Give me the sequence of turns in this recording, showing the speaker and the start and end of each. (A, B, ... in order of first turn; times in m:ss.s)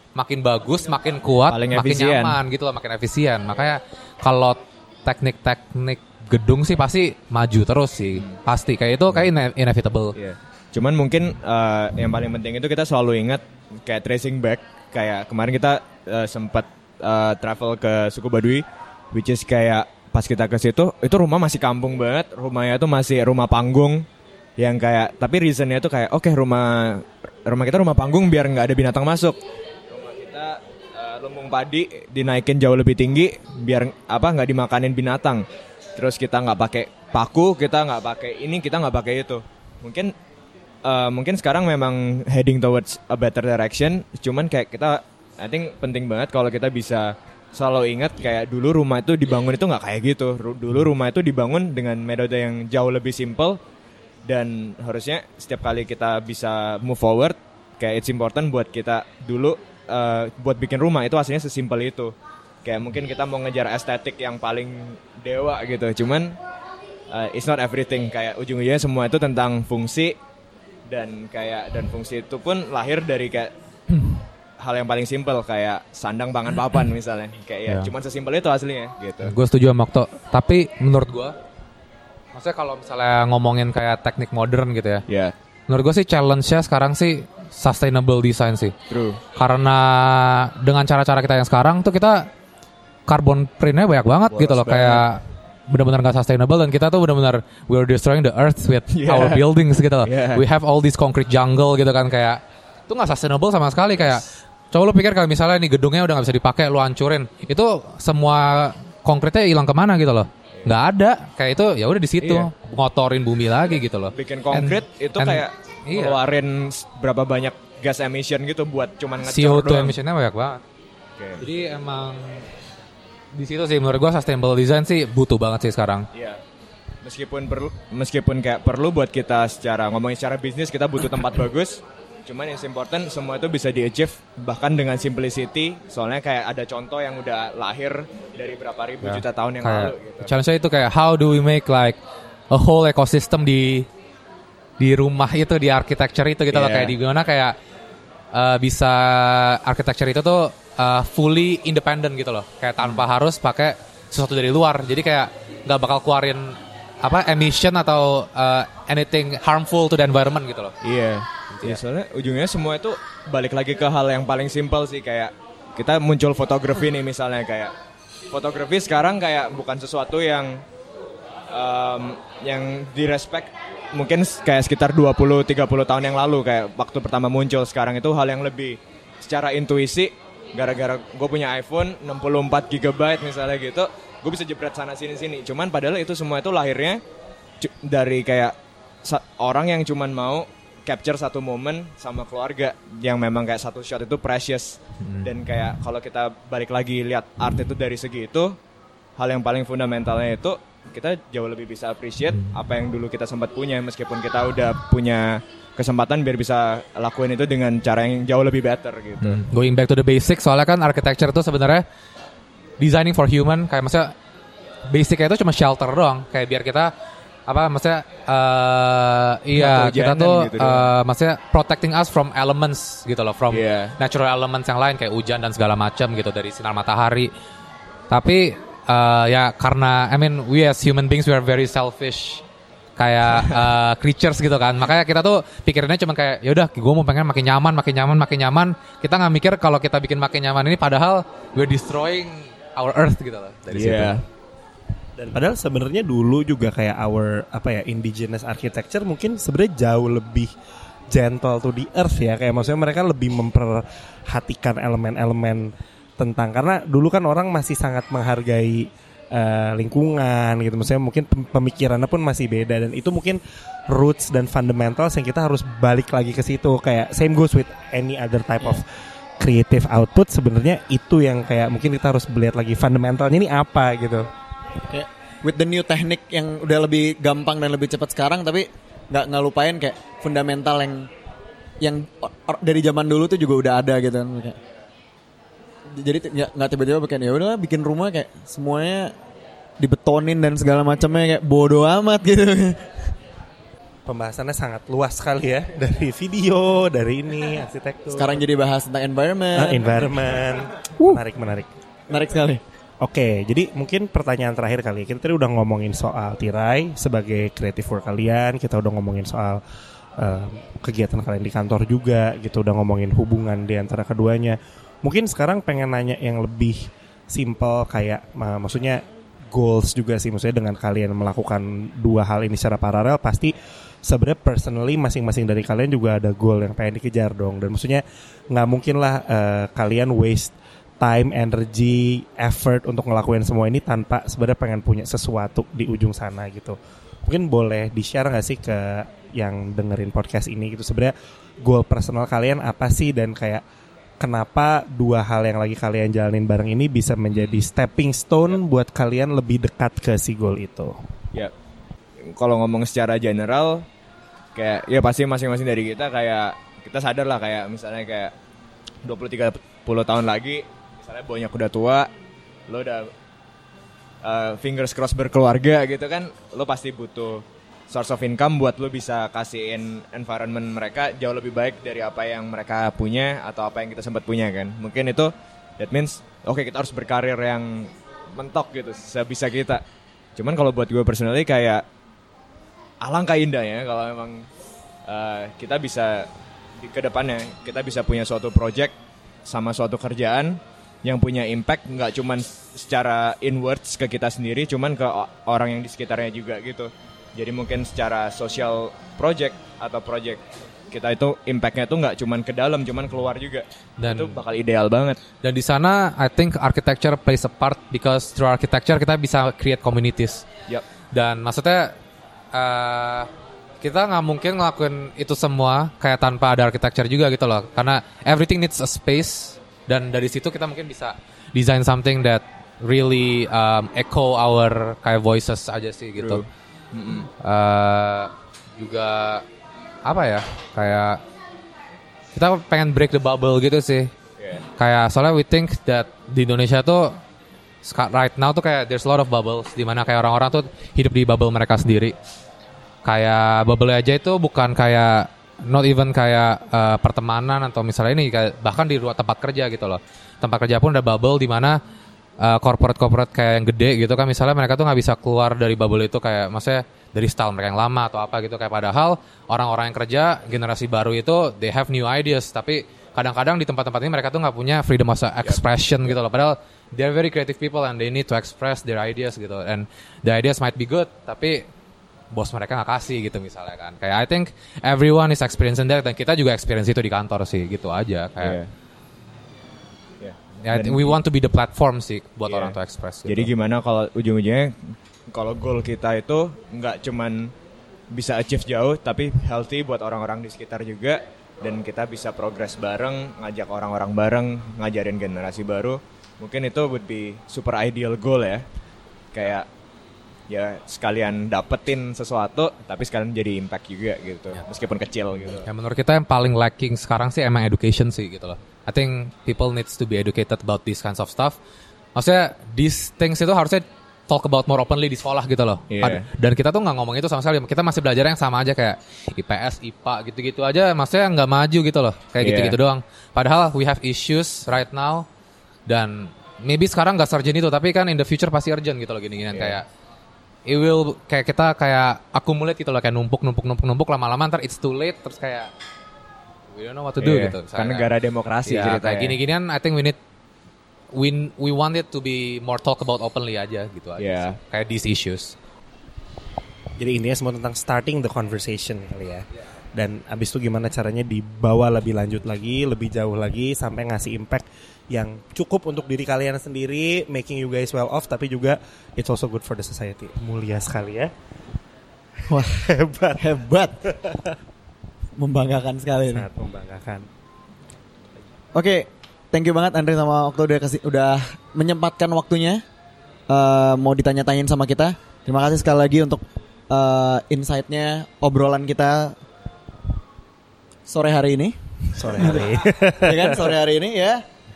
0:00.2-0:10.2 A
0:01.5-0:02.4 B
0:10.2-0:24.1 B
0:24.6-0:29.4 B
0:29.9-0:35.4 B
0:36.0-0:40.1 B
0:40.8-0:53.6 B
0:54.3-1:06.4 B
1:07.1-1:10.2 B
1:10.9-1:13.5 B
1:14.6-1:19.4 B
1:19.2-1:21.4 A
1:22.4-1:25.0 A
1:25.1-1:25.3 B
1:25.7-1:28.8 A
1:28.9-1:29.2 B
1:29.4-1:32.3 A
1:33.1-1:56.2 A
1:34.3-1:35.1 B
1:38.9-1:39.4 B
1:40.0-1:40.4 B
1:52.2-1:52.5 B
1:54.1-2:00.0 B
1:59.2-2:00.6 A
2:01.2-2:01.5 B
2:01.4-2:02.5 A
2:03.3-2:06.1 A
2:06.1-2:06.4 B
2:07.0-2:20.3 B
2:19.0-2:22.0 A
2:22.5-2:23.9 A
2:24.8-2:27.6 A
2:26.5-2:27.0 B
2:28.3-2:40.8 A
2:40.8-2:47.7 B
2:41.5-2:41.8 A
2:48.3-2:50.6 B
2:51.5-3:07.0 B
3:07.6-3:18.6 B
3:15.0-3:15.3 A
3:19.2-3:29.4 B
3:29.2-3:31.8 A
3:32.8-3:34.1 A
3:34.9-3:36.9 A
3:37.5-3:47.3 A
3:39.5-3:40.9 B
3:43.5-3:44.0 B
3:48.1-3:52.4 A
3:53.0-4:04.2 A
4:03.7-4:04.2 B
4:05.2-4:10.5 C
4:11.1-4:23.4 C
4:23.9-4:28.9 C
4:29.4-4:34.3 C
4:34.9-4:41.1 D
4:41.8-4:44.6 D
4:46.0-4:49.1 D
4:49.8-4:53.1 D
4:54.0-4:58.4 C
4:58.1-5:00.2 D
4:59.6-5:01.7 C
5:02.1-5:02.6 D
5:03.0-5:09.6 C
5:10.2-5:23.5 C
5:24.0-5:43.6 C
5:44.2-5:51.0 C
5:47.3-5:47.7 B
5:52.2-5:53.8 B
5:54.6-5:58.3 B
5:59.0-6:02.1 B
6:02.7-6:03.1 B
6:04.2-6:19.8 B
6:20.4-6:21.8 B
6:23.0-6:24.5 B
6:25.1-6:26.3 B
6:26.8-6:28.9 B
6:29.5-6:45.2 B
6:44.0-6:44.4 A
6:45.4-6:50.4 A
6:51.1-6:52.0 A
6:52.5-6:53.3 A
6:53.8-7:06.5 A
7:06.2-7:07.3 B
7:07.4-7:09.5 A
7:10.0-7:11.2 A
7:12.4-7:14.1 A
7:14.4-7:14.6 B
7:14.8-7:17.2 A
7:17.8-7:22.2 A
7:23.0-7:31.8 A
7:32.4-7:51.7 A
7:45.4-7:46.1 B
7:52.3-7:58.6 A
7:58.4-7:58.7 B
8:00.2-8:01.2 B
8:00.6-8:03.5 A
8:02.5-8:02.8 B
8:03.3-8:07.5 B
8:08.1-8:18.6 B
8:19.3-8:19.7 B
8:20.5-8:25.7 B
8:25.6-8:31.6 A
8:32.2-8:45.3 A
8:35.9-8:36.3 B
8:42.4-8:42.8 B
8:45.9-8:49.8 A
8:49.5-8:49.8 B
8:50.7-8:55.7 A
8:56.7-8:58.1 A
8:57.2-8:59.4 B
8:58.7-9:00.2 A
9:01.2-9:05.6 A
9:04.2-9:04.6 B
9:07.0-9:21.3 C
9:22.5-9:22.8 D
9:22.5-9:23.5 C
9:23.4-9:24.2 D
9:24.1-9:24.5 C
9:25.4-9:26.5 D
9:26.3-9:27.3 C
9:28.8-9:32.8 D
9:33.5-9:39.4 D
9:41.1-9:44.4 D
9:42.2-9:43.8 C